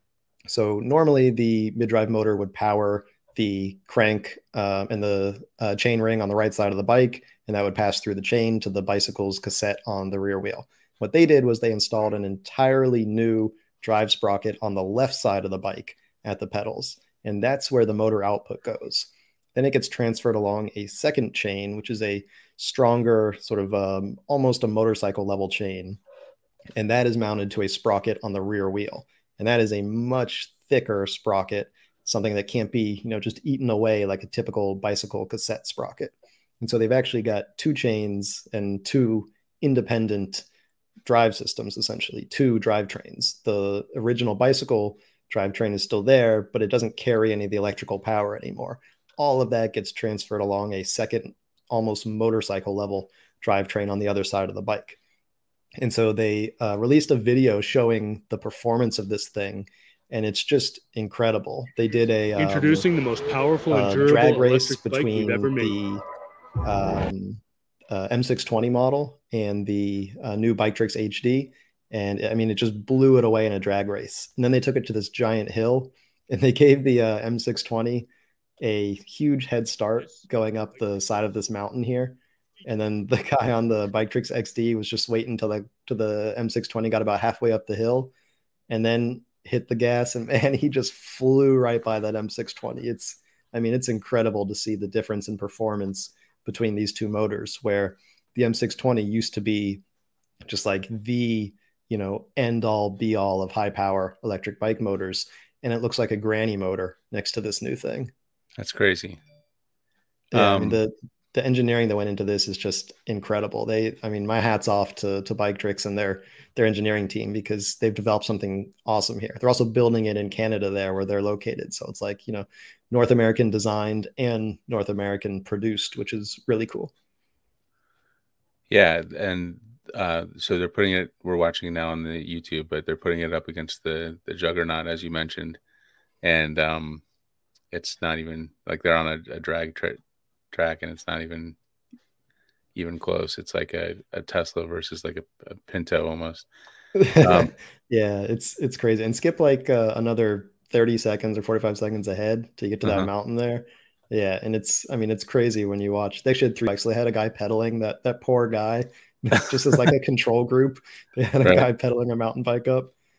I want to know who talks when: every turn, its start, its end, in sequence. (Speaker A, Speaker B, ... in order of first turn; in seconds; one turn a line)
Speaker A: 0.5-26.0
Speaker A: 26.8-40.5
Speaker A: 41.0-55.0
Speaker A: 55.8-62.9
Speaker B: 62.4-65.8
Speaker A: 63.7-66.0
Speaker A: 66.6-78.1
Speaker A: 78.6-88.1
Speaker A: 88.7-99.8
Speaker A: 100.4-108.1
Speaker C: 108.6-109.2
Speaker A: 110.3-126.9
Speaker C: 110.3-110.8
Speaker C: 128.7-135.6
Speaker C: 136.2-137.0
Speaker C: 137.7-140.0
Speaker C: 140.5-141.6
Speaker C: 142.7-146.5
Speaker A: 146.9-162.9
Speaker C: 147.2-147.5